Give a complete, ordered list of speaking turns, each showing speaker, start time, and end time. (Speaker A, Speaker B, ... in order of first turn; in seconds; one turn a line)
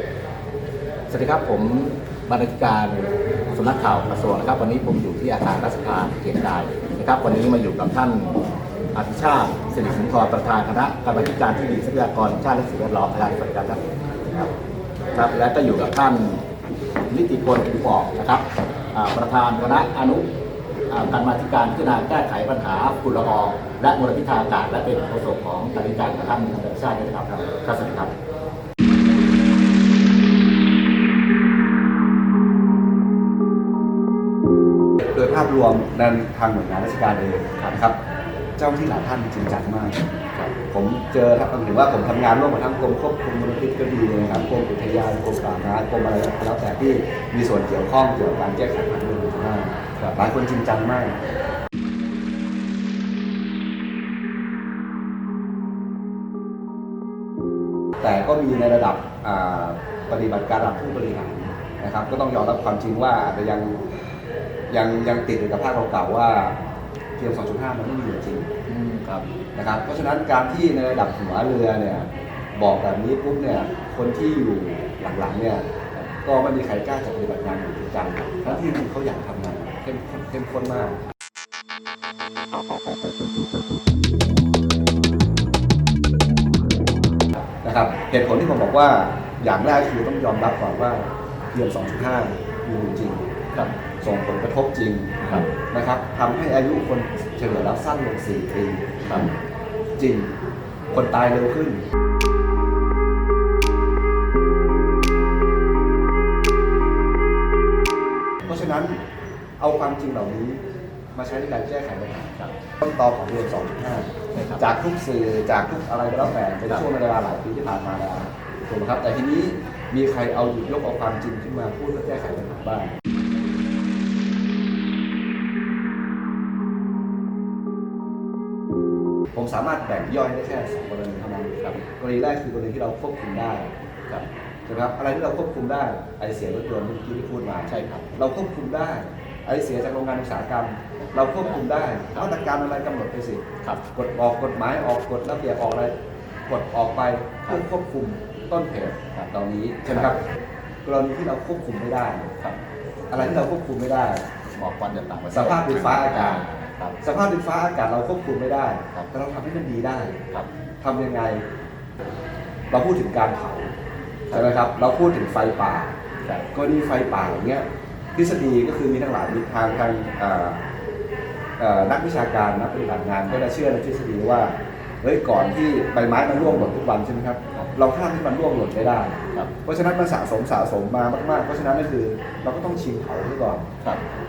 Speaker A: 1.1-14.5
Speaker A: 15.1-16.4
Speaker A: 17.1-20.3
Speaker A: 20.9-28.1
Speaker B: 35.0-38.0
Speaker B: 38.6-40.0
Speaker B: 40.7-51.2
Speaker B: 58.0-63.8
Speaker B: 64.7-66.6
Speaker B: 67.2-68.5
Speaker A: 68.7-69.3
Speaker B: 69.6-75.7
Speaker B: 76.2-81.0
Speaker B: 87.6-93.2
Speaker B: 94.0-99.0
Speaker A: 95.2-95.5
Speaker B: 100.0-100.3
Speaker B: 100.9-101.8
Speaker B: 108.4-109.0
Speaker B: 109.6-110.6
Speaker B: 111.2-122.9
Speaker A: 114.3-114.6
Speaker B: 129.3-133.7
Speaker B: 134.7-145.9
Speaker A: 137.7-138.1
Speaker B: 146.5-150.2
Speaker B: 150.8-152.3
Speaker B: 153.1-154.2
Speaker A: 154.5-157.0
Speaker B: 155.3-156.4
Speaker B: 157.0-160.2
Speaker B: 160.8-161.4
Speaker B: 162.7-163.7
Speaker B: 164.3-165.9
Speaker B: 166.5-170.6
Speaker B: 171.6-183.7